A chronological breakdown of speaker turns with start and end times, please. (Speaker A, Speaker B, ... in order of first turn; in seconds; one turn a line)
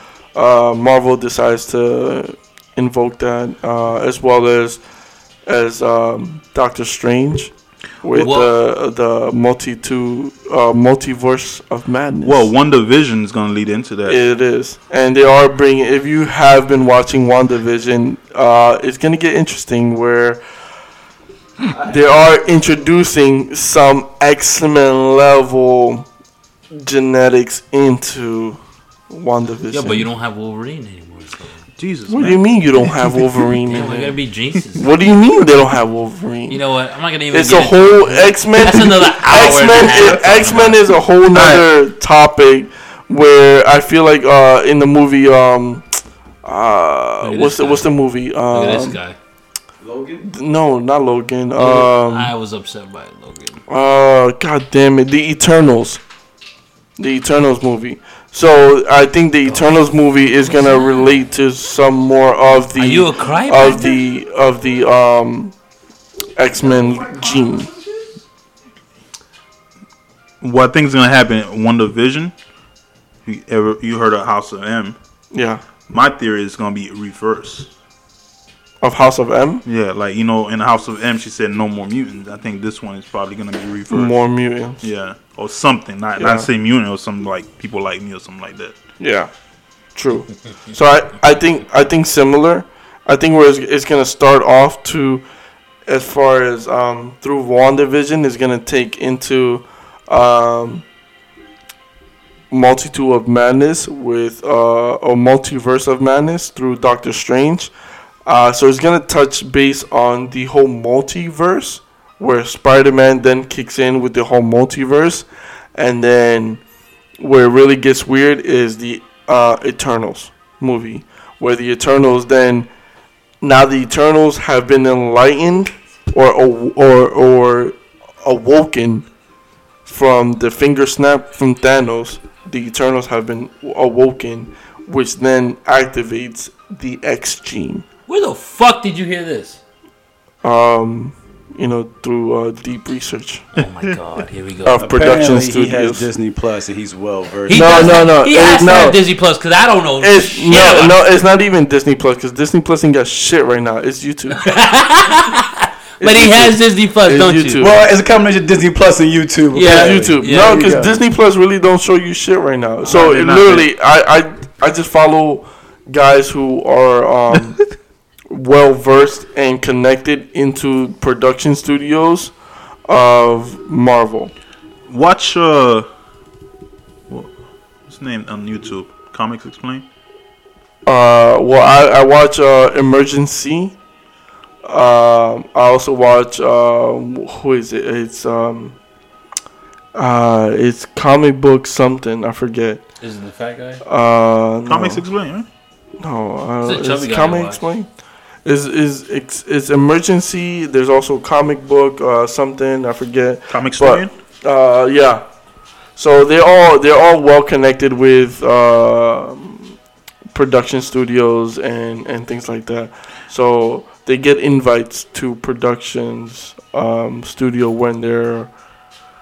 Speaker A: 0.3-4.8
Speaker A: 5.5-12.5
Speaker B: 8.1-8.5
Speaker C: 12.2-14.2
Speaker A: 14.1-20.4
Speaker D: 21.7-22.6
Speaker A: 21.8-26.1
Speaker A: 26.7-28.6
Speaker A: 29.1-30.1
Speaker B: 29.7-31.6
Speaker C: 31.8-33.4
Speaker A: 32.1-34.2
Speaker B: 33.7-34.9
Speaker A: 34.8-36.6
Speaker B: 36.5-40.8
Speaker A: 37.3-45.9
Speaker C: 41.3-41.7
Speaker A: 46.4-49.0
Speaker B: 47.2-47.9
Speaker B: 48.5-49.2
Speaker D: 49.8-50.3
Speaker A: 50.2-52.3
Speaker B: 51.6-53.6
Speaker A: 53.7-56.0
Speaker A: 57.0-65.5
Speaker B: 60.5-61.1
Speaker B: 62.8-64.0
Speaker A: 66.4-67.7
Speaker D: 66.6-68.1
Speaker C: 70.4-72.3
Speaker C: 73.3-75.0
Speaker A: 75.3-75.6
Speaker C: 75.9-77.7
Speaker A: 78.8-79.6
Speaker C: 79.7-84.2
Speaker A: 83.9-84.8
Speaker C: 84.8-88.8
Speaker A: 86.2-86.5
Speaker A: 89.0-89.3
Speaker A: 90.0-95.2
Speaker A: 95.9-100.8
Speaker A: 102.5-107.7
Speaker A: 108.3-116.6
Speaker A: 117.2-122.7
Speaker A: 123.4-129.1
Speaker A: 129.9-137.8
Speaker B: 138.1-139.6
Speaker A: 140.4-143.4
Speaker B: 143.6-144.9
Speaker C: 143.6-144.0
Speaker A: 144.7-146.1
Speaker D: 144.8-148.1
Speaker B: 147.5-151.0
Speaker A: 147.5-149.0
Speaker A: 150.0-154.4
Speaker B: 154.4-157.7
Speaker A: 156.0-157.8
Speaker D: 157.6-161.0
Speaker B: 159.5-160.7
Speaker A: 159.6-167.6
Speaker C: 162.8-163.7
Speaker A: 168.3-172.3
Speaker A: 172.9-174.3
Speaker C: 174.9-175.9
Speaker C: 177.9-179.8
Speaker A: 180.9-183.8
Speaker A: 184.6-188.8
Speaker A: 189.9-192.8
Speaker B: 193.0-193.8
Speaker A: 193.8-195.0
Speaker C: 194.7-195.5
Speaker A: 196.0-197.9
Speaker B: 196.6-197.7
Speaker A: 198.4-205.2
Speaker C: 203.5-204.1
Speaker A: 206.0-209.7
Speaker A: 210.3-218.5